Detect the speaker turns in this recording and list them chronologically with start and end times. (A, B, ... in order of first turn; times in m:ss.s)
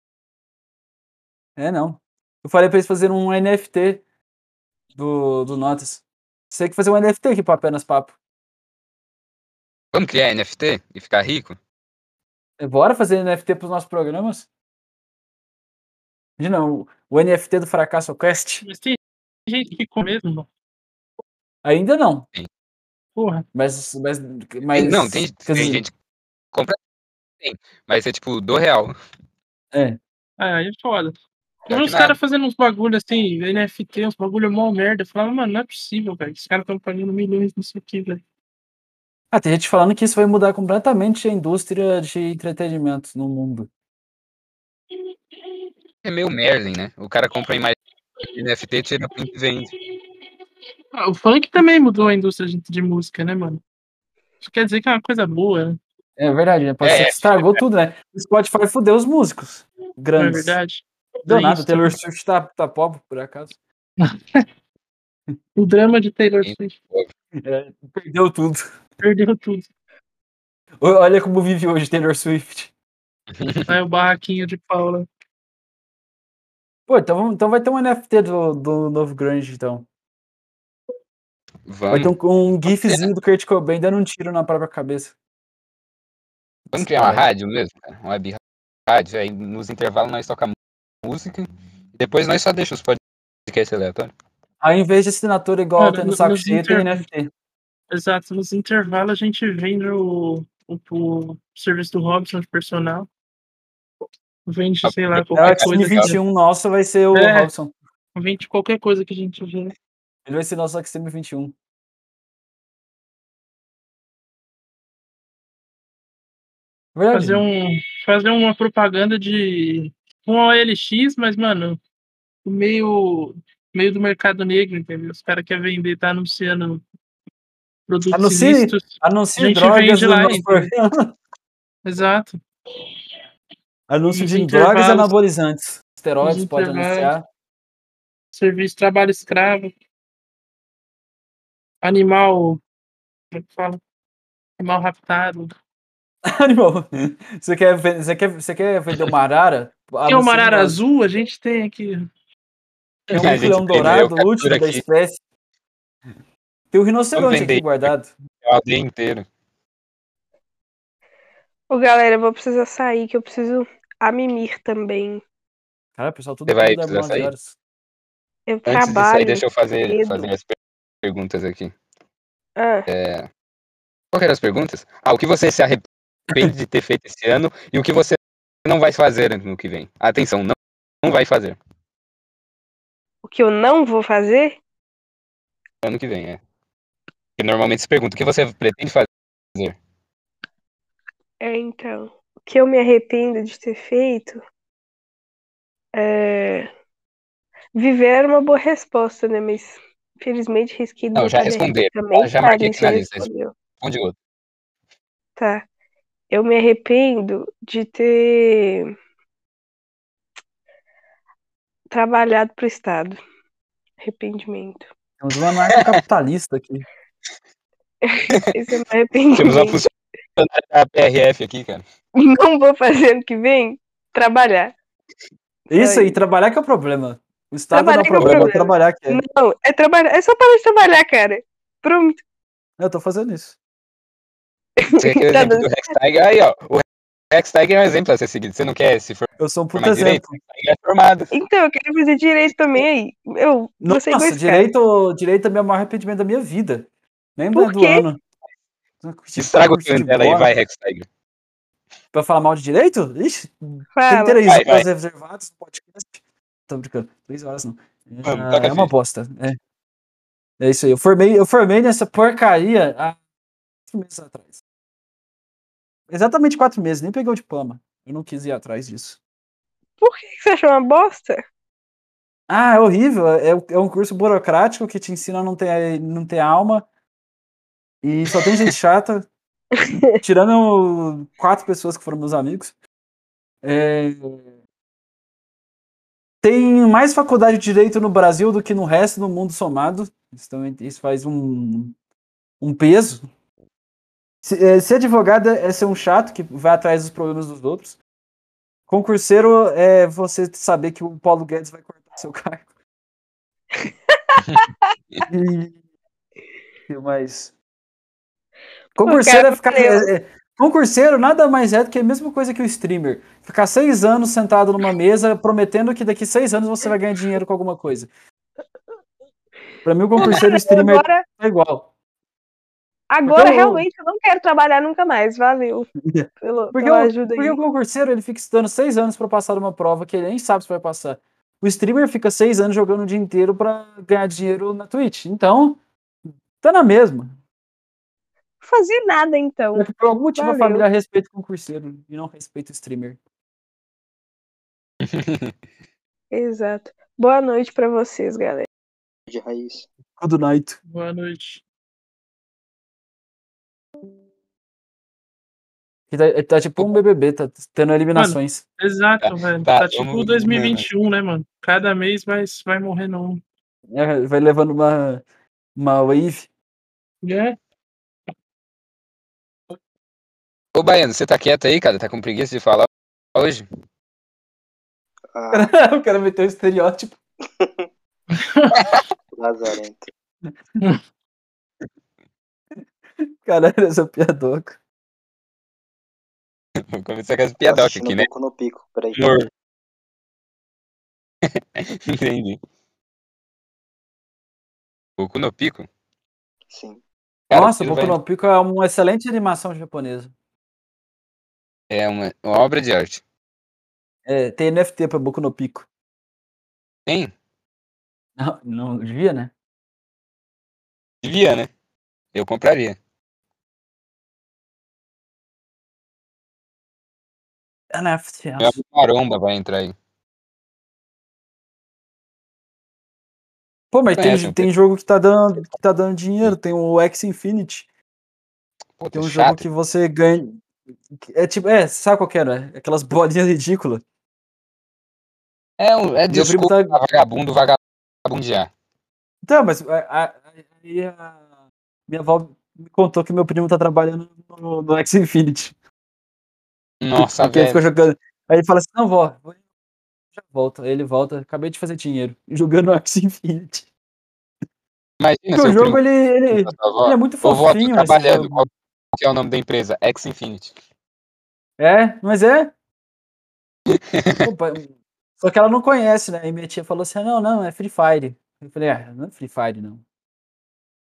0:01.6-0:04.0 A
0:05.0-0:08.2 A
0:09.9-0:11.6 B
0:12.6-0:14.5 A
0:16.4-0:18.6 A
0:18.6-0:20.5 C
0:21.6-0:22.3 A
0:23.2-0:23.4 C
0:23.5-0:25.8 A
0:24.7-0:25.9 B
0:27.4-0:29.0 B
0:29.7-0:30.0 A
0:30.4-0:31.2 C
0:31.7-0:32.2 B
0:31.7-0:38.2 C
0:39.3-0:43.7 A
0:46.0-0:47.8 B
0:48.3-0:49.7 B
0:51.0-0:53.6 C
0:54.4-0:55.8 C
0:56.2-1:00.6 A
0:56.8-0:57.6 B
1:00.2-1:02.0 C
1:01.3-1:03.6 A
1:04.0-1:04.4 C
1:05.6-1:06.8 C
1:06.4-1:07.1 B
1:07.4-1:08.7 A
1:09.0-1:09.7 C
1:10.8-1:12.7 A
1:13.3-1:13.7 B
1:13.7-1:15.1 C
1:16.9-1:19.9 A
1:21.7-1:22.1 B
1:21.9-1:25.1 A
1:22.7-1:23.1 B
1:26.7-1:27.2 A
1:26.7-1:34.1 B
1:34.6-1:37.3 A
1:35.8-1:37.0 C
1:37.9-1:43.1 C
1:44.5-1:46.2 C
1:44.8-1:46.1 B
1:45.4-1:47.7 A
1:47.1-1:47.5 C
1:48.2-1:49.7 C
1:50.3-1:51.6 A
1:57.0-1:57.4 A
1:57.1-2:01.8 C
2:02.4-2:06.8 C
2:07.9-2:10.7 C
2:08.1-2:11.1 A
2:11.8-2:12.4 C
2:13.9-2:17.3 A
2:14.1-2:15.1 C
2:16.2-2:17.1 C
2:18.3-2:19.7 C
2:21.8-2:22.6 C
2:23.3-2:23.8 C
2:24.6-2:25.5 C
2:26.2-2:30.8 A
2:30.1-2:32.0 C
2:33.1-2:34.8 B
2:33.1-2:35.2 A
2:36.7-2:38.1 A
2:37.2-2:37.9 B
2:38.4-2:39.3 B
2:41.7-2:45.2 D
2:46.0-2:47.6 A
2:46.5-2:47.3 B
2:48.5-2:50.3 D
2:48.7-2:51.7 B
2:52.6-2:52.9 D
2:52.9-2:53.3 B
2:54.1-3:01.6 B
3:03.2-3:04.6 D
3:05.8-3:06.4 B
3:07.4-3:09.8 B
3:11.4-3:14.4 D
3:16.0-3:16.7 D
3:17.8-3:23.5 D
3:21.2-3:23.3 B
3:23.8-3:24.2 B
3:25.4-3:25.6 D
3:26.3-3:28.9 D
3:31.9-3:33.2 D
3:34.0-3:34.9 D
3:35.2-3:36.9 A
3:38.0-3:39.8 D
3:39.3-3:41.8 B
3:42.2-3:44.7 D
3:45.7-3:49.2 A
3:45.7-3:46.2 D
3:47.7-3:52.2 D
3:48.2-3:48.5 B
3:52.8-3:53.6 A
3:54.8-3:55.7 D
3:55.0-4:01.3 B
3:59.4-4:00.4 A
4:01.3-4:04.7 D
4:03.8-4:08.2 A
4:07.5-4:08.0 D
4:09.0-4:10.5 A
4:09.4-4:11.1 B
4:12.1-4:19.6 A
4:14.0-4:14.4 D
4:14.5-4:14.9 B
4:18.2-4:18.9 B
4:20.6-4:23.2 A
4:23.9-4:24.6 A
4:26.1-4:29.2 A
4:30.0-4:31.4 D
4:32.5-4:36.9 A
4:38.0-4:39.3 A
4:39.8-4:40.1 D
4:40.2-4:42.8 A
4:43.6-4:44.5 A
4:46.4-4:52.0 A
4:52.6-4:53.3 A
4:54.4-4:58.0 A
4:58.9-5:02.7 A
5:04.1-5:04.7 D
5:05.3-5:05.8 A
5:06.9-5:07.5 A
5:09.0-5:18.1 A
5:09.0-5:10.1 D
5:19.8-5:21.9 A
5:20.2-5:21.2 D
5:23.1-5:25.9 D
5:23.3-5:23.9 A
5:26.1-5:35.8 A
5:26.4-5:27.6 D
5:36.6-5:37.4 A
5:38.6-5:40.8 D
5:39.8-5:43.2 A
5:45.0-5:45.6 B
5:46.3-5:48.7 D
5:49.3-5:49.9 E
5:50.2-5:50.8 A
5:50.9-5:51.6 C
5:56.1-5:58.6 A
5:58.2-6:03.4 C
5:59.2-6:00.9 B
6:03.9-6:05.2 A
6:05.8-6:06.5 A
6:07.2-6:07.6 C
6:10.8-6:13.7 B
6:15.3-6:15.7 E
6:15.5-6:17.2 A
6:17.6-6:17.9 E
6:18.3-6:18.8 C
6:19.3-6:20.1 E
6:23.2-6:24.8 A
6:26.9-6:28.3 B
6:27.6-6:29.4 E
6:29.2-6:29.5 B
6:31.5-6:32.6 B
6:35.2-6:35.9 B
6:36.7-6:37.0 E
6:37.5-6:38.2 B
6:37.5-6:40.3 A
6:41.9-6:43.2 B
6:44.3-6:45.9 A
6:47.1-6:47.3 B
6:48.4-6:49.5 A
6:51.2-6:51.7 B
6:52.3-6:53.0 B
6:57.9-6:58.8 A
6:58.6-7:00.0 B
7:03.9-7:07.9 A
7:04.2-7:04.7 B
7:09.0-7:09.6 B
7:09.1-7:10.6 A
7:11.1-7:14.0 A
7:15.8-7:18.7 B
7:16.3-7:17.0 A
7:19.4-7:21.4 A
7:22.1-7:25.8 A
7:27.0-7:27.8 B
7:27.2-7:29.6 A
7:30.4-7:33.9 A
7:35.2-7:40.8 B
7:35.5-7:38.7 A
7:41.8-7:42.7 A
7:43.9-7:44.4 B
7:44.4-7:50.0 A